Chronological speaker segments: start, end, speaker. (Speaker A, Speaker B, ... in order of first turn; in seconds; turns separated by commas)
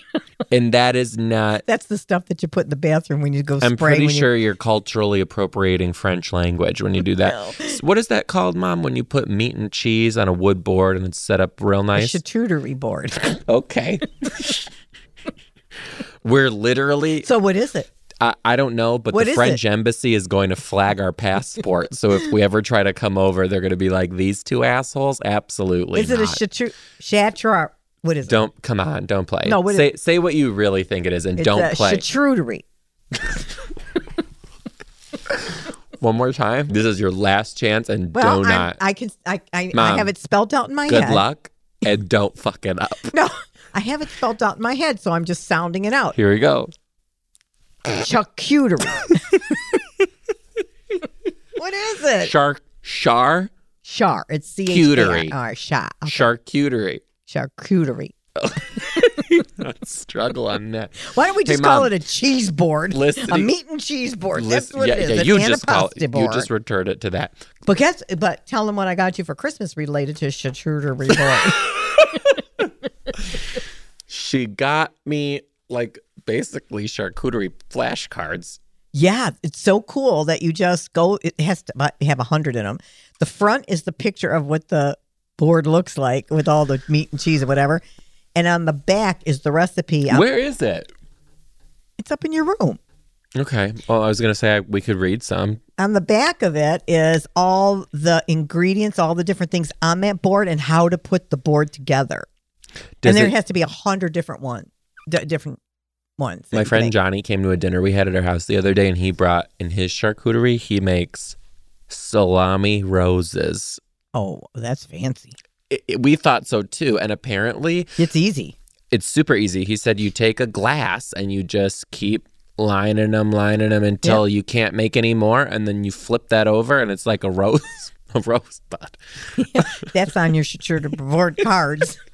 Speaker A: 0.5-1.6, Speaker B: 1.7-4.3, Speaker A: 3.6-12.2, Speaker B: 7.2-7.8, Speaker B: 11.9-13.2, Speaker A: 13.3-14.7, Speaker A: 16.2-17.3, Speaker B: 17.2-17.9, Speaker A: 18.2-26.4, Speaker B: 19.1-19.6, Speaker B: 25.9-28.4, Speaker A: 28.3-32.0, Speaker B: 29.4-29.9, Speaker B: 31.4-32.6, Speaker A: 35.3-38.8, Speaker B: 38.1-41.2, Speaker A: 39.7-40.1, Speaker A: 40.9-43.1, Speaker B: 43.1-46.2, Speaker A: 46.1-46.7, Speaker B: 48.0-49.5, Speaker B: 51.6-52.3, Speaker A: 52.2-53.5, Speaker B: 53.8-56.3, Speaker A: 54.7-55.4, Speaker A: 56.1-57.0, Speaker B: 57.3-58.1, Speaker A: 58.4-61.9, Speaker B: 61.0-66.5, Speaker A: 62.9-63.5, Speaker A: 64.3-67.4, Speaker B: 67.7-71.7, Speaker A: 71.2-72.4, Speaker A: 73.1-73.5, Speaker A: 74.1-78.6, Speaker B: 78.9-87.8, Speaker B: 88.4-90.2, Speaker A: 90.1-90.9, Speaker B: 92.0-92.8, Speaker A: 93.4-95.6, Speaker B: 95.8-102.3, Speaker A: 103.0-103.3, Speaker B: 103.0-105.6, Speaker B: 106.2-106.9, Speaker A: 106.5-111.4, Speaker A: 111.9-113.8, Speaker B: 114.2-115.3, Speaker A: 115.7-118.0, Speaker B: 118.0-118.6, Speaker A: 118.9-129.9, Speaker B: 129.4-132.0